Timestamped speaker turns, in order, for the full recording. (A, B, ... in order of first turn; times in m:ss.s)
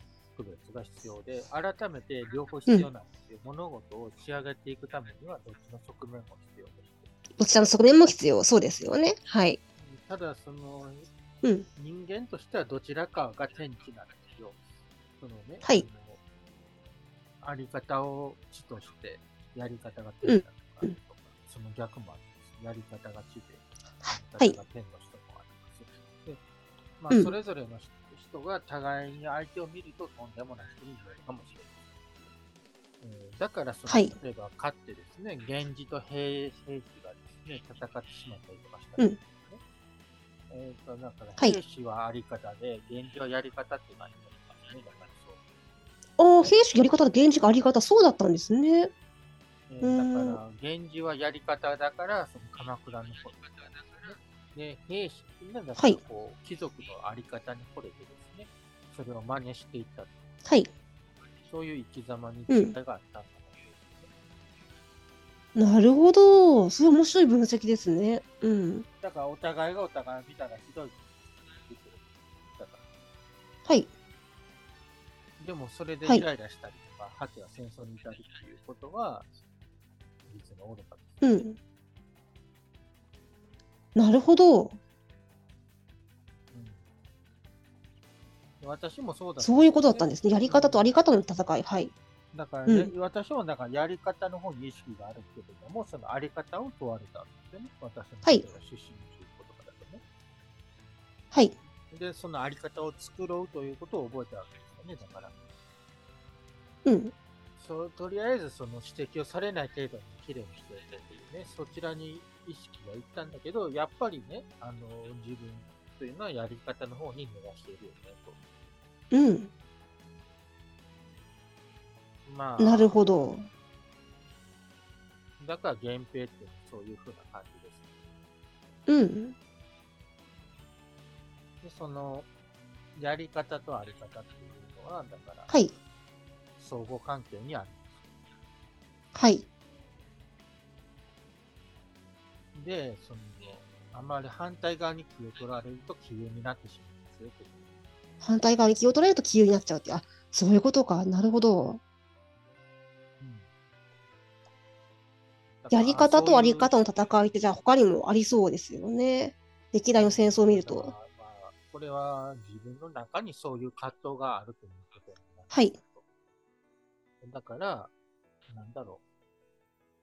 0:00.3-0:07.1 A
0:07.4-0:09.6 B
0:09.8-0:11.1 A
0:11.8-0:14.6 A
0:15.2-0:16.2 A
0:17.4-0:26.4 A
0:20.2-0:20.9 B
0:24.0-0:24.6 B
0:27.0-0:31.7 A
0:33.0-0:39.6 A
0:33.9-0:34.1 B
0:40.5-0:45.4 A
0:46.2-0:48.9 B
0:49.7-1:00.1 A
0:49.8-0:50.4 B
1:01.4-1:04.1 A
1:02.5-1:02.7 B
1:05.6-1:08.8 B
1:09.0-1:12.8 A
1:15.4-1:19.3 A
1:20.3-1:21.4 A
1:21.2-1:21.6 B
1:24.0-1:24.8 B
1:26.5-1:26.8 A
1:28.6-1:30.9 A
1:29.4-1:31.9 B
1:32.3-1:40.0 A
1:41.9-1:45.4 A
1:46.8-1:47.1 B
1:47.6-1:58.4 A
1:59.1-1:59.5 B
2:02.2-2:03.0 A
2:02.6-2:03.5 B
2:05.4-2:07.9 A
2:08.9-2:09.3 B
2:11.6-2:12.3 A
2:13.0-2:15.5 A
2:16.6-2:18.0 A
2:19.1-2:19.4 B
2:22.5-2:27.6 A
2:28.2-2:31.8 B
2:33.2-2:33.5 A
2:35.6-2:36.7 A
2:35.7-2:40.9 B
2:40.0-2:46.0 A
2:47.2-2:47.9 A
2:48.5-2:49.0 A